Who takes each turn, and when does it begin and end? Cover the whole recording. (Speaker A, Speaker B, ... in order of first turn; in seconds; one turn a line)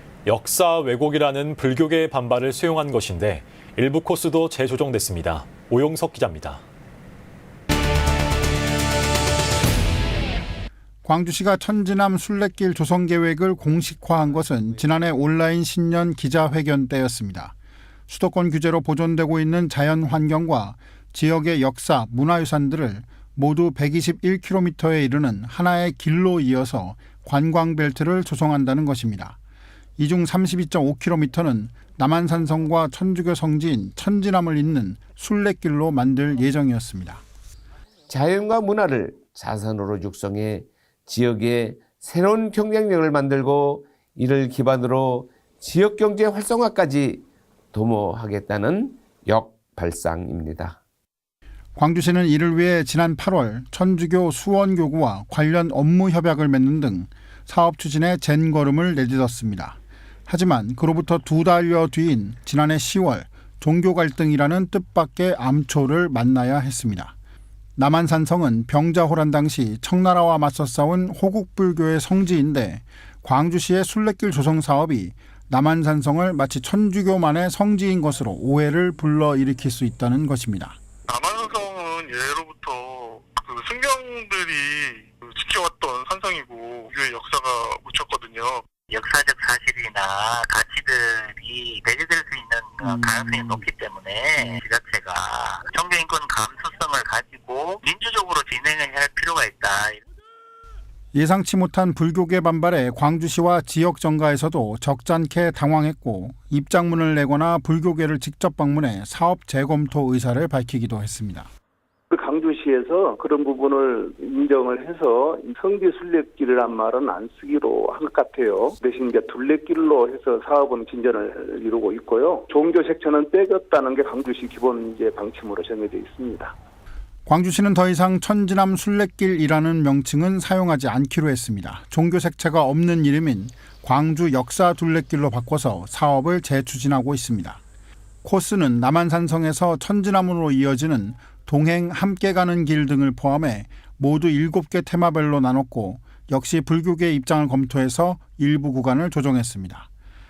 Speaker A: 0.3-6.6
Speaker B: 11.0-17.5
Speaker B: 18.1-29.4
Speaker B: 30.0-37.2
Speaker C: 38.1-50.8
Speaker B: 51.8-67.1
Speaker B: 67.8-80.8
Speaker D: 81.1-88.7
Speaker E: 88.9-100.0
Speaker B: 92.8-93.6
Speaker B: 101.1-111.5
Speaker F: 112.1-126.5
Speaker B: 127.3-137.6
Speaker B: 138.2-149.9